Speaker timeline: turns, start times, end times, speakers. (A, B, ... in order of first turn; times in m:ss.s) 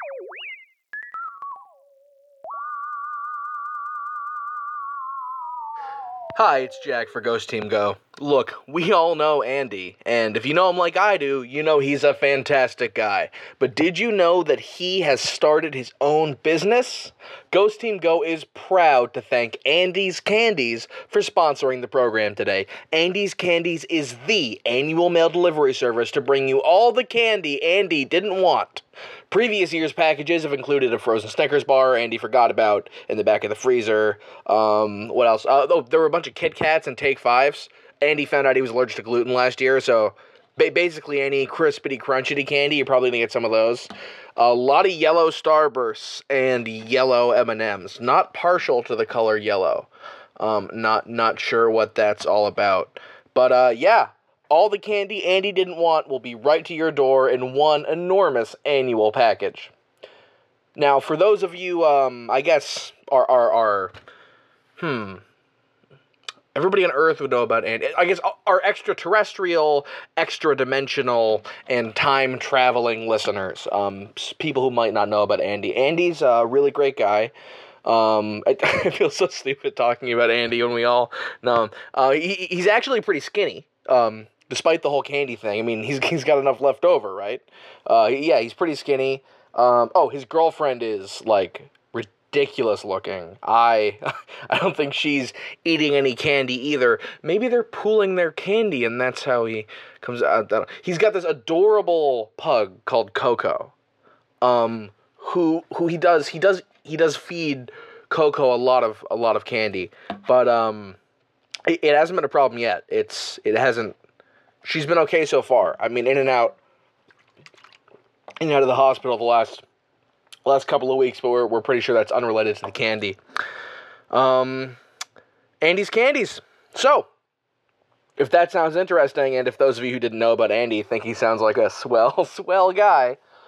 0:06.4-0:49.9 A
0:50.4-0:59.7 A
1:00.8-1:03.9 A
1:04.8-1:05.2 A
1:06.5-1:17.3 A
1:17.8-1:43.7 A
1:44.4-1:51.0 A
1:51.7-1:54.0 A
1:54.6-1:56.6 A
1:58.4-1:59.6 A
2:00.4-2:03.2 A
2:04.1-2:04.8 A
2:05.6-2:07.1 A
2:08.2-2:13.2 A